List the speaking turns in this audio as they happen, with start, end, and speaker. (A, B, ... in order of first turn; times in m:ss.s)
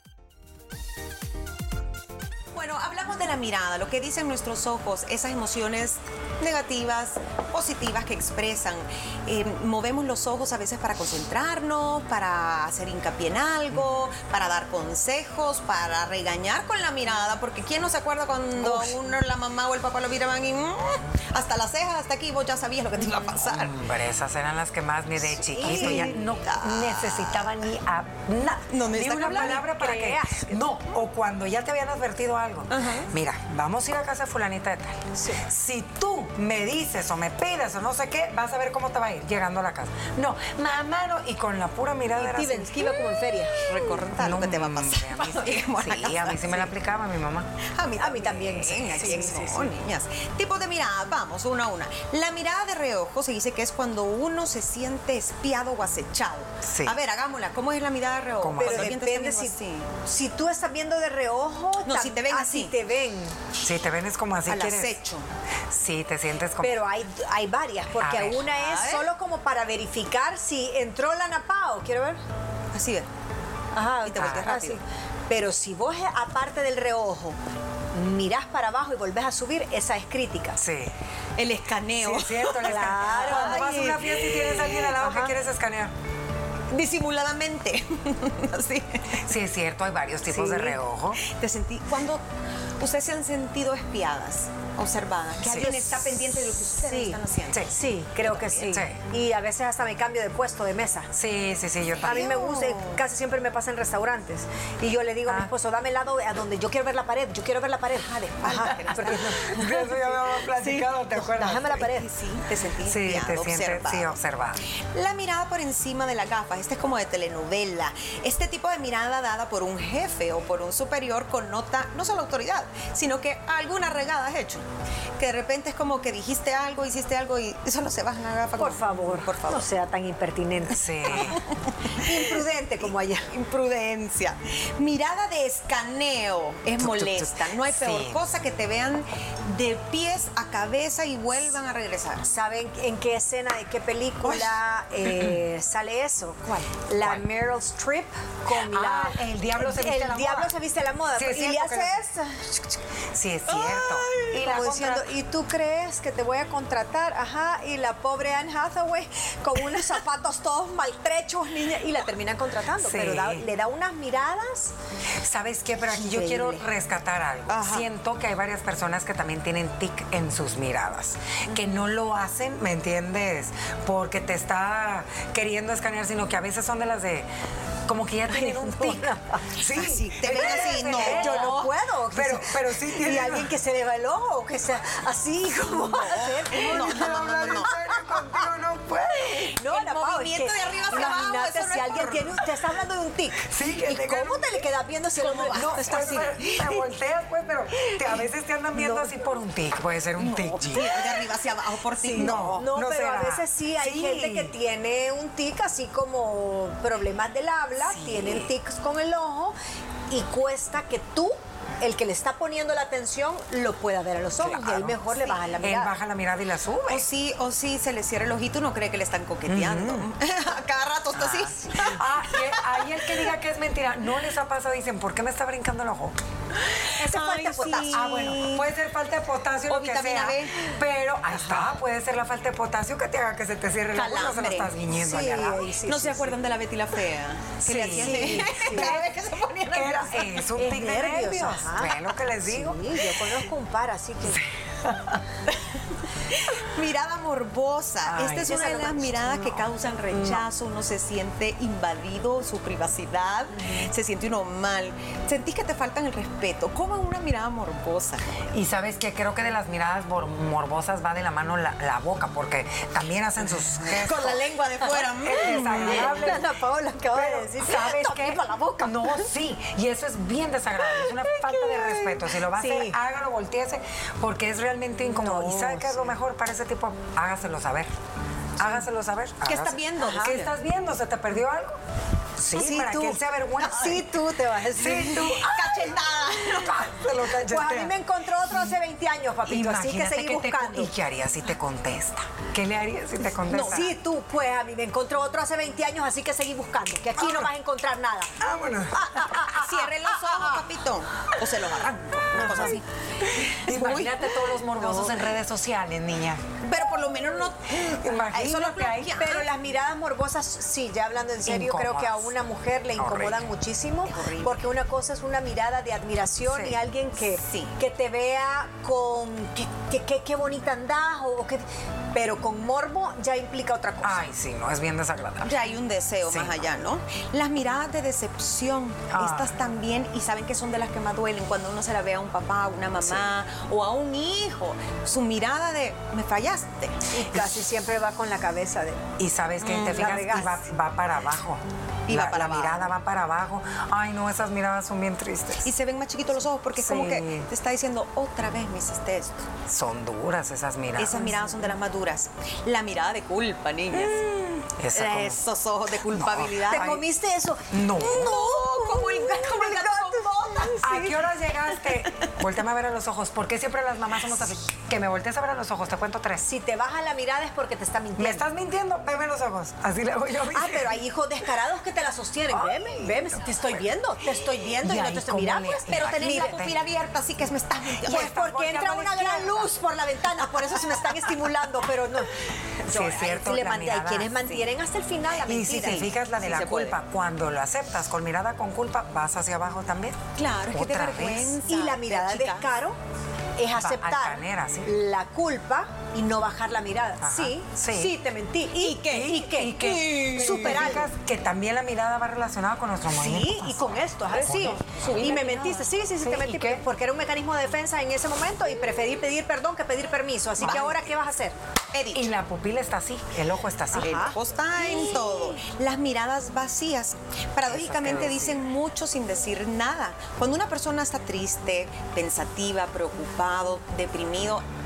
0:02.6-0:23.8 A
0:13.7-0:14.0 B
0:18.6-0:19.0 B
0:23.4-0:42.7 B
0:25.2-0:26.2 C
0:25.6-0:27.4 A
0:28.7-0:29.7 A
0:29.5-0:30.6 C
0:32.7-0:33.1 A
0:35.2-0:35.4 C
0:42.2-0:43.7 C
0:43.6-0:46.7 A
0:44.2-0:47.5 B
0:47.8-0:59.9 A
0:48.0-0:49.7 C
0:48.9-0:49.5 B
0:56.6-0:57.0 B
0:58.4-0:59.0 B
0:58.6-1:03.4 C
1:01.9-1:02.7 A
1:03.6-1:05.0 B
1:04.5-1:05.3 A
1:05.7-1:06.8 B
1:06.6-1:12.2 C
1:08.0-1:08.5 B
1:08.5-1:09.1 A
1:12.7-1:13.1 A
1:13.7-1:17.4 C
1:14.0-1:14.8 A
1:14.2-1:14.5 B
1:17.9-1:20.6 C
1:20.6-1:21.0 B
1:21.4-1:25.0 A
1:22.0-1:25.9 B
1:22.6-1:23.9 C
1:25.0-1:25.3 C
1:26.7-1:29.2 A
1:29.2-1:31.2 B
1:30.3-1:30.8 C
1:31.2-1:32.2 A
1:32.8-1:37.7 A
1:35.4-1:35.7 B
1:35.7-1:36.1 C
1:36.8-1:41.1 C
1:37.5-1:37.8 B
1:38.2-1:38.8 A
1:38.7-1:39.0 B
1:41.1-1:42.3 B
1:42.0-1:43.0 A
1:42.0-1:52.1 C
1:45.3-1:45.5 B
1:48.0-1:50.0 A
1:48.9-1:51.9 B
1:51.5-1:54.2 A
1:52.8-1:54.6 B
1:54.8-2:04.6 A
2:05.2-2:09.7 A
2:08.6-2:13.3 C
2:10.7-2:11.4 B
2:11.1-2:12.5 A
2:13.3-2:22.3 A
2:16.8-2:18.2 B
2:22.2-2:32.8 C
2:24.2-2:24.6 A
2:25.1-2:25.4 B
2:27.0-2:27.2 B
2:28.5-2:30.6 B
2:31.2-2:32.1 B
2:33.1-2:35.1 B
2:33.5-2:34.4 A
2:34.3-2:44.7 C
2:42.8-2:43.5 B
2:45.2-2:57.3 B
2:45.9-2:46.7 C
2:47.5-2:47.8 A
2:57.9-3:03.5 B
2:58.3-2:59.5 C
2:59.6-3:01.7 A
3:00.2-3:08.5 C
3:05.8-3:07.8 A
3:06.0-3:09.5 B
3:09.3-3:16.8 C
3:09.6-3:12.5 A
3:13.4-3:14.6 B
3:15.2-3:16.8 A
3:15.5-3:21.0 B
3:20.2-3:22.6 A
3:22.1-3:29.6 C
3:22.1-3:24.5 B
3:27.8-3:28.5 B
3:30.1-3:35.9 C
3:34.4-3:37.1 B
3:36.9-3:43.0 A
3:39.5-3:40.1 B
3:41.2-3:46.2 B
3:46.7-3:48.6 A
3:46.9-3:48.6 C
3:47.9-3:55.7 B
3:49.7-3:50.6 A
3:53.9-3:54.7 A
3:55.0-3:56.4 C
3:55.8-4:00.4 A
3:57.6-3:59.1 B
3:57.7-3:59.0 C
3:59.7-4:03.1 B
4:00.5-4:04.5 C
4:04.3-4:05.2 B
4:05.5-4:05.8 A
4:06.3-4:18.4 A
4:08.1-4:08.7 B
4:08.4-4:09.6 C
4:13.5-4:13.9 C
4:18.5-4:24.4 B
4:23.7-4:26.4 A
4:25.2-4:26.5 B
4:25.3-4:29.3 C
4:27.1-4:37.9 B
4:30.8-4:33.0 C
4:35.0-4:36.1 C
4:38.6-4:41.8 B
4:39.4-4:40.6 A
4:40.0-4:40.4 C
4:42.4-4:44.1 B
4:42.5-4:45.7 C
4:44.8-4:45.8 B
4:45.1-4:47.0 A
4:46.5-4:48.0 B
4:47.3-4:50.9 C
4:48.5-4:48.8 B
4:49.5-4:53.9 B
4:53.5-4:53.9 A
4:53.5-4:58.3 C
4:57.2-4:57.5 B
4:58.4-4:59.5 B
4:58.9-5:00.6 C
4:59.4-5:04.4 A
5:02.4-5:06.4 B
5:02.4-5:02.8 C
5:06.6-5:09.5 A
5:07.7-5:09.2 B
5:09.2-5:24.2 C
5:11.4-5:12.3 B
5:13.0-5:13.5 B
5:14.1-5:14.6 A
5:16.5-5:16.8 B
5:17.4-5:17.7 A
5:24.0-5:25.6 B
5:25.4-5:37.1 A
5:26.3-5:26.6 B
5:29.1-5:29.6 B
5:33.0-5:33.3 B
5:37.1-5:39.0 C
5:39.2-5:45.7 B
5:39.6-5:40.2 A
5:39.7-5:40.6 C
5:42.1-5:42.9 A
5:45.6-5:49.5 A
5:46.8-5:47.5 B
5:49.7-5:51.7 B
5:51.0-5:57.0 A
5:54.8-5:55.4 B
5:56.1-5:57.0 B
5:56.6-6:01.2 C
5:57.7-5:58.4 B
5:58.0-6:00.9 A
6:00.8-6:06.5 B
6:06.4-6:08.5 C
6:08.2-6:11.0 B
6:10.5-6:16.6 C
6:12.6-6:13.8 B
6:14.8-6:16.8 B
6:15.9-6:18.4 A
6:18.0-6:19.7 B
6:18.1-6:26.1 C
6:22.8-6:24.4 B
6:25.5-6:31.6 B
6:25.7-6:27.0 A
6:30.4-6:32.7 A
6:31.6-6:33.0 C
6:33.6-6:41.1 C
6:33.7-6:34.9 B
6:37.2-6:38.2 B
6:38.8-6:41.0 A
6:39.1-6:44.8 B
6:43.1-6:51.5 C
6:44.8-6:45.9 A
6:46.2-6:46.8 B
6:50.6-6:51.0 B
6:50.6-6:51.0 A
6:51.9-6:52.3 A
6:52.1-6:54.2 B
6:53.9-6:54.4 C
6:54.0-7:04.6 A
6:57.7-6:58.6 B